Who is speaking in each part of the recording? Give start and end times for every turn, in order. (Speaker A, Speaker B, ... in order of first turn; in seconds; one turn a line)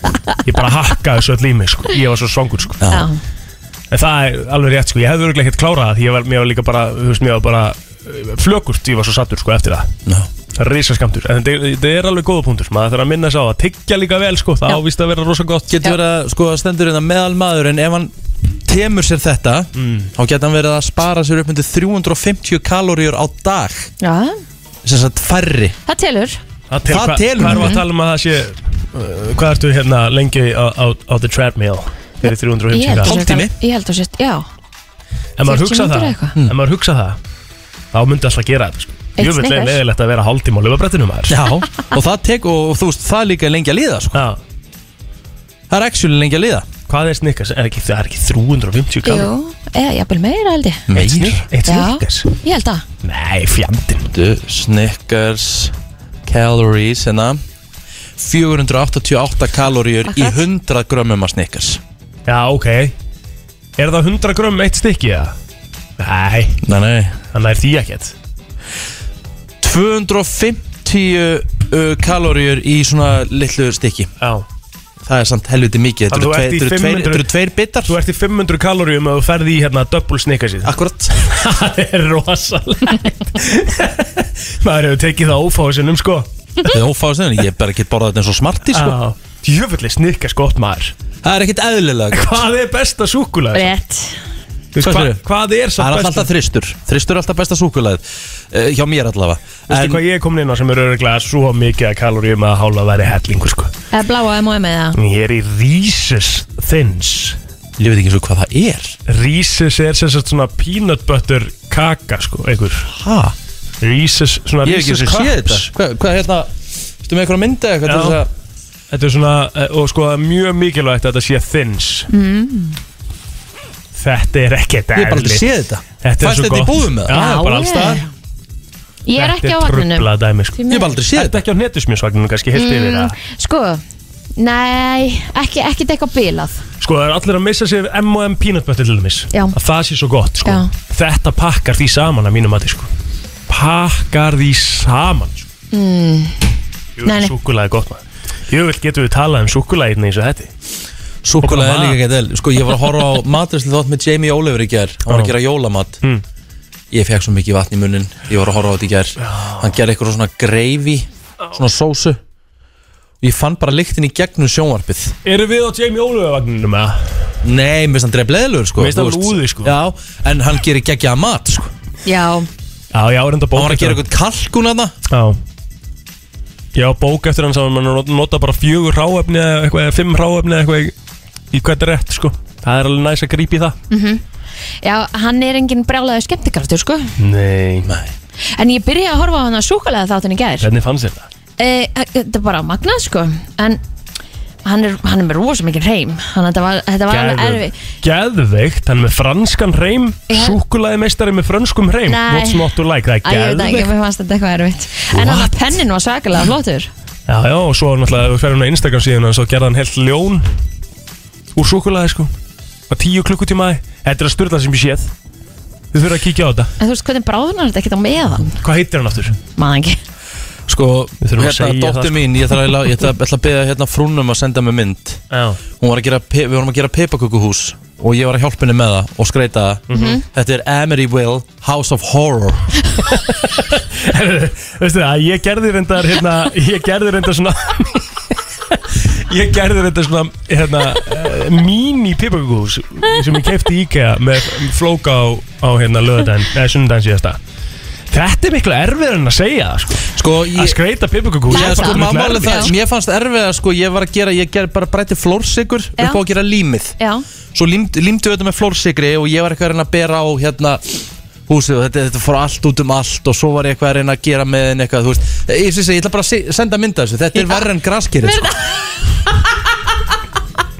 Speaker A: 0.4-2.8
Speaker B: 2.8-3.1
Speaker C: 2.9-3.2
Speaker A: 3.9-9.9
Speaker A: 10.6-15.8
Speaker B: 15.7-23.9
Speaker A: 19.8-20.1
Speaker C: 24.0-24.4
Speaker B: 24.8-25.7
Speaker C: 25.9-26.4
Speaker A: 26.7-33.1
Speaker B: 26.9-27.8
Speaker C: 27.4-27.8
Speaker C: 32.3-34.5
Speaker B: 33.0-33.5
Speaker A: 35.4-37.2
Speaker C: 35.4-36.3
Speaker A: 37.9-41.4
Speaker C: 39.2-39.8
Speaker B: 41.3-44.2
Speaker A: 44.1-44.4
Speaker B: 45.7-46.7
Speaker A: 46.9-49.3
Speaker C: 49.0-50.9
Speaker B: 50.9-51.5
Speaker A: 50.9-52.3
Speaker C: 51.6-52.8
Speaker A: 53.0-54.1
Speaker B: 54.1-55.7
Speaker B: 56.2-57.4
Speaker B: 58.2-61.8
Speaker C: 60.1-60.4
Speaker A: 62.3-62.9
Speaker A: 63.8-65.3
Speaker A: 66.0-66.6
Speaker B: 66.6-67.2
Speaker A: 67.3-68.1
Speaker B: 69.6-74.1
Speaker B: 75.0-77.9
Speaker A: 76.1-77.3
Speaker A: 77.8-86.3
Speaker B: 80.6-81.1
Speaker B: 86.6-89.0
Speaker A: 88.7-90.9
Speaker B: 91.2-92.4
Speaker A: 92.1-93.7
Speaker C: 93.5-94.2
Speaker A: 94.7-96.3
Speaker B: 94.8-95.2
Speaker B: 95.8-100.0
Speaker A: 99.7-103.7
Speaker C: 103.9-105.0
Speaker A: 105.0-107.4
Speaker B: 107.8-109.0
Speaker A: 109.1-112.9
Speaker B: 112.9-113.3
Speaker A: 113.8-115.7
Speaker B: 114.6-116.5
Speaker B: 117.0-118.3
Speaker A: 117.8-118.2
Speaker A: 118.9-122.1
Speaker C: 122.1-122.8
Speaker A: 123.9-125.5
Speaker B: 124.9-127.3
Speaker A: 126.0-128.0
Speaker C: 127.1-128.1
Speaker C: 129.1-130.9
Speaker A: 129.2-133.1
Speaker B: 130.7-131.4
Speaker C: 132.5-133.8
Speaker C: 134.4-136.6
Speaker A: 136.8-142.9
Speaker A: 143.5-145.5
Speaker C: 145.7-146.4
Speaker A: 147.0-150.5
Speaker C: 147.0-147.3
Speaker B: 151.2-156.0
Speaker A: 151.4-152.0
Speaker A: 155.1-155.3
Speaker B: 156.9-162.2
Speaker A: 159.2-159.7
Speaker B: 163.2-165.2
Speaker A: 165.2-167.1
Speaker B: 167.4-171.7
Speaker A: 168.8-169.7
Speaker C: 172.0-172.5
Speaker A: 172.9-174.0
Speaker B: 173.5-174.9
Speaker A: 175.1-175.4
Speaker A: 176.7-180.9
Speaker A: 181.5-183.8
Speaker C: 183.9-184.2
Speaker C: 184.8-187.1
Speaker A: 187.2-187.9
Speaker C: 188.6-190.7
Speaker A: 190.6-191.3
Speaker C: 191.6-193.8
Speaker C: 194.6-197.7
Speaker A: 197.1-203.9
Speaker C: 200.3-200.6
Speaker C: 202.1-206.9
Speaker A: 205.2-205.5
Speaker A: 207.3-210.5
Speaker A: 211.5-212.3
Speaker A: 212.9-215.1
Speaker A: 215.9-216.7
Speaker C: 216.8-218.6
Speaker A: 218.6-219.4
Speaker C: 219.5-220.0
Speaker B: 220.7-225.2
Speaker A: 221.2-222.7
Speaker A: 225.3-225.6
Speaker B: 225.8-232.7
Speaker A: 229.9-230.2
Speaker C: 229.9-230.2
Speaker A: 233.1-238.2
Speaker A: 239.1-247.4
Speaker A: 248.1-252.7
Speaker B: 250.2-250.8
Speaker B: 251.5-256.9
Speaker C: 251.5-252.7
Speaker C: 256.0-256.2
Speaker C: 257.0-257.2
Speaker B: 257.5-268.5
Speaker C: 267.3-267.6
Speaker C: 268.2-269.2